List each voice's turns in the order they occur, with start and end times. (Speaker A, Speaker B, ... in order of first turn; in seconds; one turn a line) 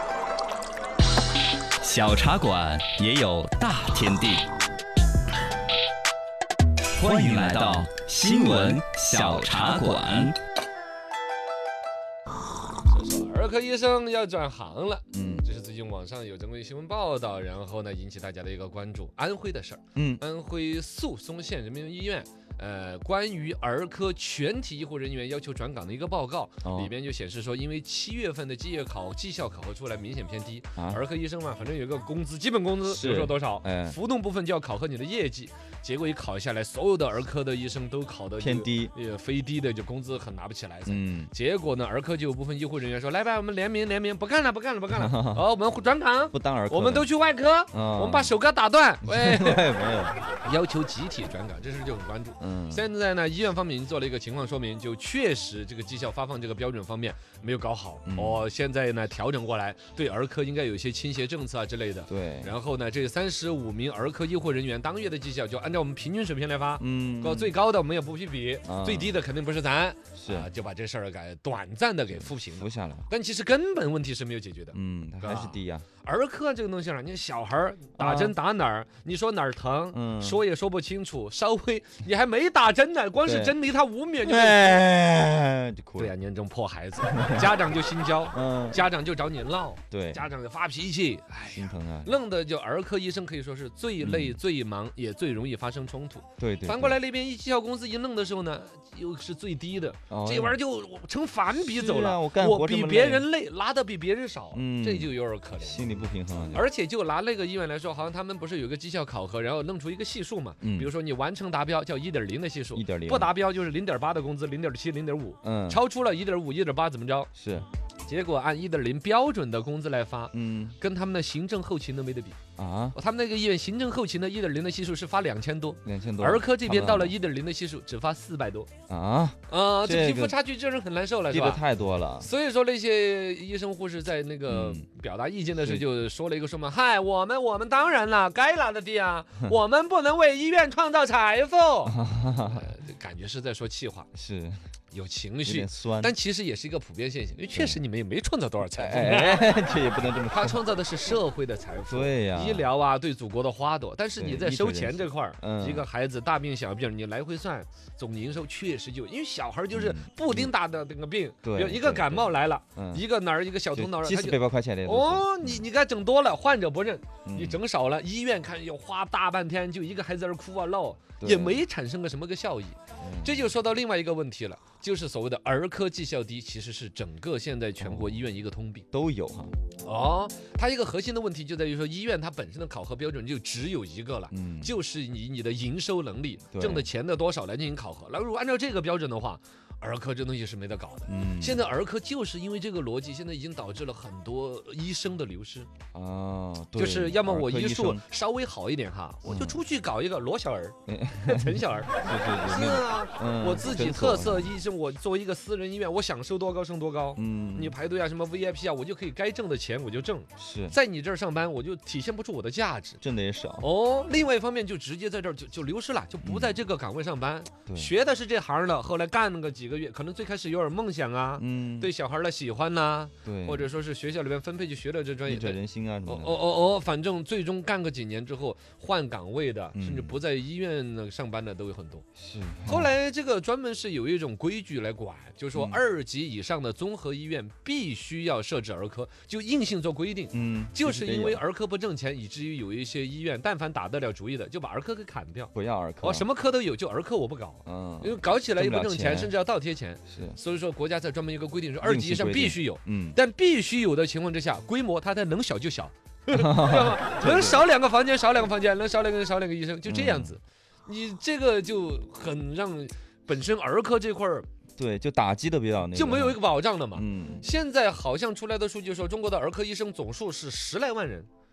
Speaker A: 1.8-4.5
Speaker A: 7.0-10.4
Speaker B: 12.8-49.7
Speaker C: 15.1-15.5
Speaker C: 19.9-20.2
Speaker C: 26.6-26.9
Speaker C: 32.8-34.0
Speaker C: 38.4-38.9
Speaker C: 40.9-41.3
Speaker C: 44.9-45.5
Speaker C: 46.3-47.1
Speaker C: 47.7-48.4
Speaker C: 49.0-50.2
Speaker B: 50.3-84.8
Speaker C: 52.4-52.9
Speaker C: 58.1-58.5
Speaker C: 62.1-62.5
Speaker C: 66.8-67.6
Speaker C: 68.7-69.2
Speaker C: 70.2-70.5
Speaker C: 72.1-73.1
Speaker C: 74.7-75.9
Speaker C: 78.0-78.4
Speaker C: 79.9-80.4
Speaker C: 83.2-83.6
Speaker C: 84.2-86.1
Speaker B: 86.0-106.0
Speaker C: 87.0-87.5
Speaker C: 88.3-88.8
Speaker C: 89.9-90.2
Speaker C: 91.5-92.1
Speaker C: 94.0-94.4
Speaker C: 96.4-97.0
Speaker C: 100.1-100.6
Speaker C: 101.5-103.3
Speaker C: 104.5-106.7
Speaker B: 106.5-117.3
Speaker C: 110.6-110.9
Speaker C: 112.7-113.3
Speaker C: 115.4-115.8
Speaker C: 117.3-117.7
Speaker B: 118.1-122.4
Speaker C: 120.3-120.8
Speaker C: 122.6-123.0
Speaker B: 123.0-128.7
Speaker C: 125.8-127.2
Speaker C: 128.9-130.4
Speaker B: 129.5-131.6
Speaker C: 131.3-132.3
Speaker B: 132.2-144.1
Speaker C: 134.5-134.9
Speaker C: 135.5-135.9
Speaker C: 141.9-142.7
Speaker C: 144.1-144.6
Speaker B: 144.9-149.6
Speaker C: 145.4-146.2
Speaker C: 147.5-147.8
Speaker C: 148.8-151.2
Speaker B: 150.3-178.9
Speaker C: 151.9-152.7
Speaker C: 154.2-155.8
Speaker C: 159.7-160.5
Speaker C: 161.4-163.1
Speaker C: 163.7-165.7
Speaker C: 167.2-167.6
Speaker C: 171.2-171.7
Speaker C: 173.0-173.5
Speaker C: 177.8-178.2
Speaker C: 178.9-179.6
Speaker B: 179.8-195.7
Speaker C: 184.3-184.7
Speaker C: 186.5-186.9
Speaker C: 191.1-191.6
Speaker C: 195.9-198.0
Speaker B: 196.8-213.0
Speaker C: 199.2-199.6
Speaker C: 200.9-204.5
Speaker C: 207.2-207.8
Speaker C: 210.4-210.8
Speaker C: 213.0-213.7
Speaker B: 213.6-232.1
Speaker C: 216.2-216.6
Speaker C: 217.7-217.9
Speaker C: 221.4-221.9
Speaker C: 223.2-223.7
Speaker C: 225.3-226.4
Speaker C: 229.7-230.2
Speaker C: 232.2-232.9
Speaker B: 232.7-264.5
Speaker C: 235.5-235.8
Speaker C: 240.3-241.4
Speaker C: 245.5-246.3
Speaker C: 247.7-249.3
Speaker C: 250.1-250.4
Speaker C: 251.8-253.2
Speaker C: 256.3-257.7
Speaker C: 259.9-260.4
Speaker C: 264.8-266.4
Speaker B: 265.9-271.3
Speaker C: 266.9-267.5